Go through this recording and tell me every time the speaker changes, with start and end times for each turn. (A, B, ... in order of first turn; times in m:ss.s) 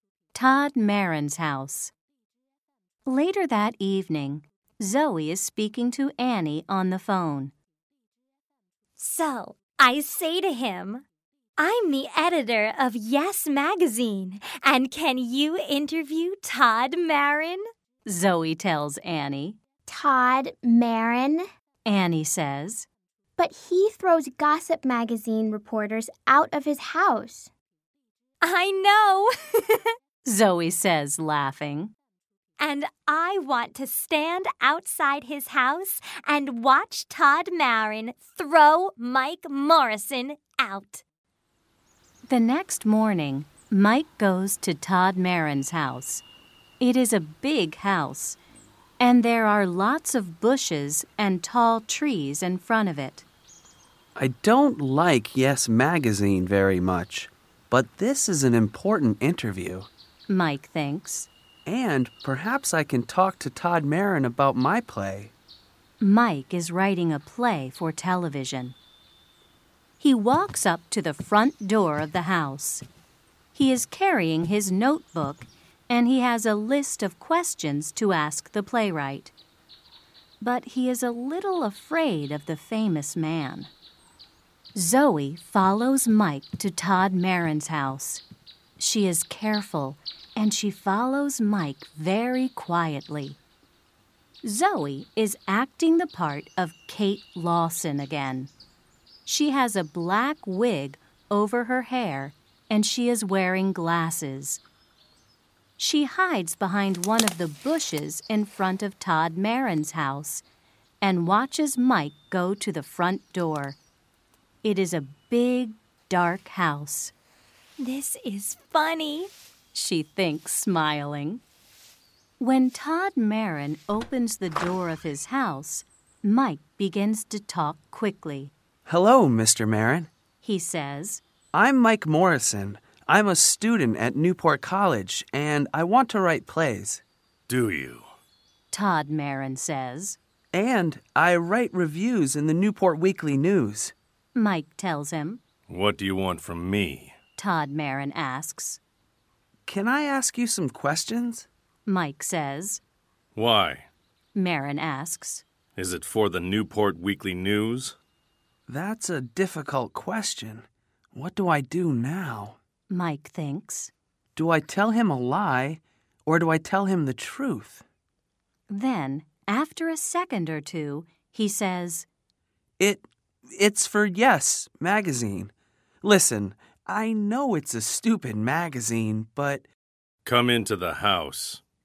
0:00.3-0:01.9 A
0:03.0-0:07.5 A
0:09.0-0:11.0 B
0:11.6-0:17.6 B
0:18.0-0:19.6 A
0:19.9-0:21.4 C
0:21.8-0:22.9 A
0:23.4-0:27.5 C
0:28.4-0:29.8 B
0:30.2-0:31.9 A
0:32.6-0:41.0 B
0:42.3-0:46.2 A
0:46.8-0:48.4 A
0:49.0-0:53.2 A
0:54.2-0:59.9 D
1:00.3-1:01.3 A
1:01.6-1:05.3 D
1:06.0-1:08.8 A
1:10.0-1:12.8 A
1:13.5-1:19.3 A
1:20.4-1:23.7 A
1:24.8-1:28.2 A
1:28.8-1:33.4 A
1:34.4-1:38.5 A
1:39.2-1:44.6 A
1:45.8-1:50.4 A
1:51.0-1:53.8 A
1:54.6-1:57.1 A
1:57.8-1:59.3 B
1:59.7-2:01.4 A
2:02.4-2:08.5 A
2:08.8-2:10.1 D
2:10.4-2:11.2 A
2:11.5-2:17.0 D
2:17.5-2:18.1 E
2:18.7-2:20.2 A
2:20.5-2:23.9 D
2:24.3-2:25.4 A
2:25.7-2:27.2 E
2:27.4-2:28.8 A
2:29.6-2:31.5 D
2:31.8-2:32.8 A
2:33.3-2:33.9 E
2:34.3-2:35.4 A
2:35.8-2:38.0 E
2:38.7-2:42.6 D
2:42.9-2:43.9 A
2:44.4-2:47.8 D
2:48.7-2:52.1 A
2:52.8-2:59.6 D
3:00.2-3:01.6 E